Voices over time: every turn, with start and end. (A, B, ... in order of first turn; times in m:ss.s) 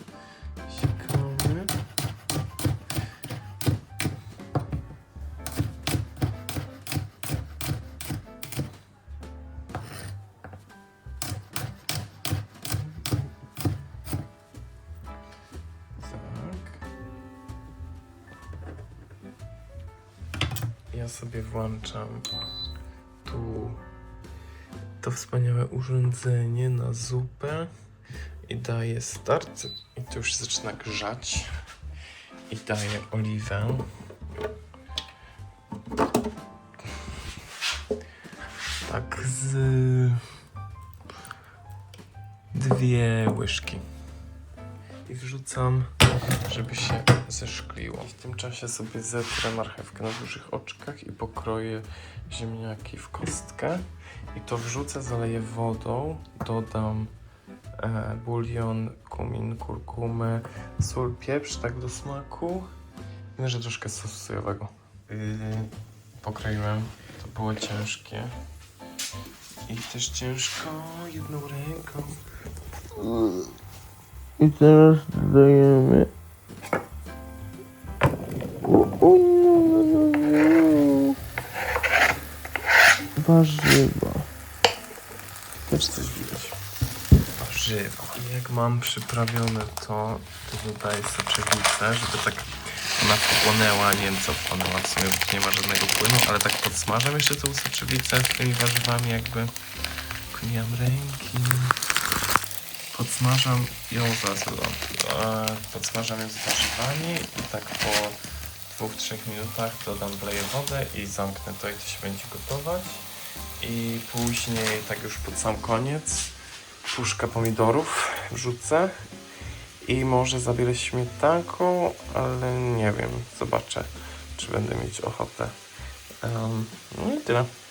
0:00.6-0:01.7 A
0:16.0-0:16.8 A
0:20.9-0:22.2 A
0:23.2-0:23.8 A
0:25.0-0:27.7 A
0:28.4-0:31.5 A
0:32.5-0:33.8 A
0:38.8-0:40.2 A
0:42.5-0:43.8 A
0:45.1-0:45.9 A
0:46.4-0:57.1 A
0:57.8-1:02.7 A
1:03.3-1:08.3 A
1:09.7-1:12.2 A
1:13.0-1:13.4 A
1:14.4-1:16.1 A
1:18.6-1:21.1 A
1:23.2-1:24.3 A
1:25.7-1:26.6 A
1:27.4-1:39.5 A
1:40.3-1:41.7 A
1:42.9-1:53.1 A
1:53.6-1:56.3 A
1:56.8-1:58.9 A
1:59.8-2:05.6 A
2:06.2-2:07.5 A